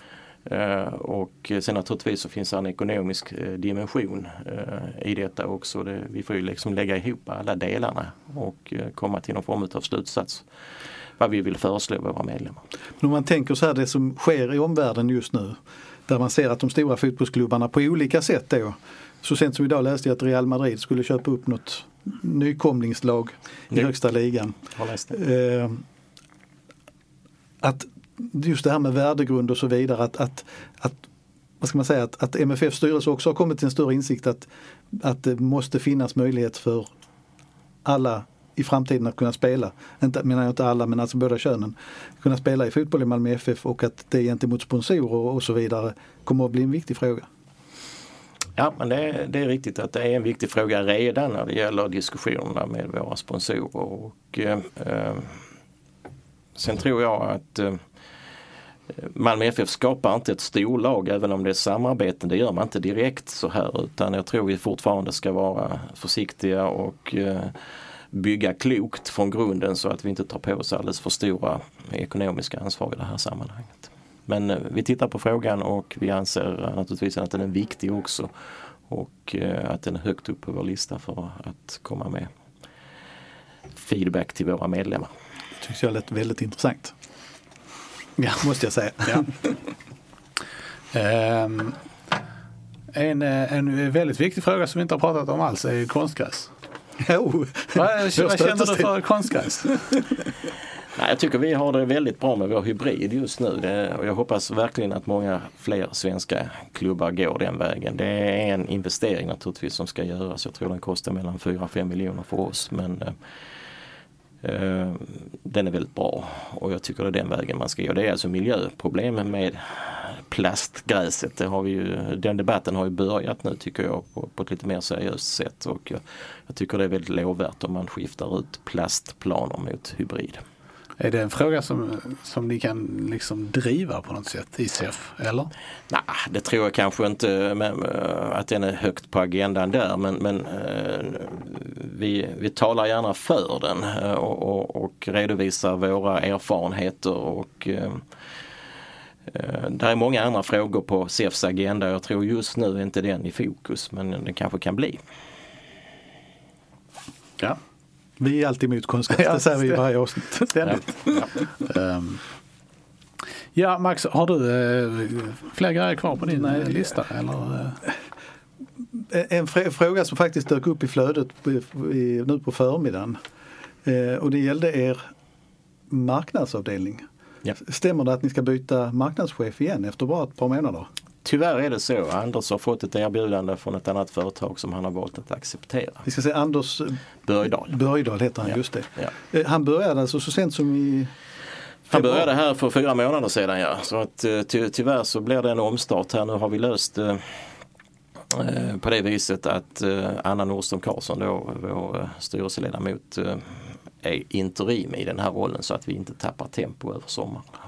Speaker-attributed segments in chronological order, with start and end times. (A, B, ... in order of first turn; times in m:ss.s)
0:00.5-0:10.4 A
0:11.2-0:12.6 A
0:13.0-0:24.6 B
0:24.7-0:25.1 A
0:25.1-0:25.8 B
0:27.6-0:31.0 B
0:31.6-0:36.9 B
0:37.8-0:47.3 B
0:48.6-0:55.3 A
0:56.6-0:57.8 A
0:59.0-1:07.5 A
1:08.1-1:18.3 A
1:18.9-1:22.3 A
1:23.8-1:25.1 A
1:25.6-1:26.9 B
1:28.4-1:29.5 B
1:30.9-1:31.8 C
1:32.9-1:36.5 C
1:37.0-1:38.9 B
1:37.8-1:39.9 C
1:41.0-1:53.1 A
1:54.4-2:10.4 A
2:11.0-2:15.5 C
2:15.9-2:28.0 A
2:29.3-2:35.0 A
2:38.2-2:41.1 B
2:39.1-2:39.8 C
2:40.5-2:40.9 C
2:41.6-2:42.2 C
2:43.6-2:47.8 C
2:46.3-2:46.8 B
2:49.1-2:53.2 B
2:53.8-2:55.1 B
2:55.9-2:57.0 B
2:57.6-3:00.9 B
3:01.2-3:06.0 A
3:06.0-3:07.0 B
3:07.3-3:07.7 A
3:07.7-3:11.1 B
3:08.4-3:09.1 A
3:11.9-3:17.4 A
3:11.9-3:12.2 B
3:18.3-3:27.5 A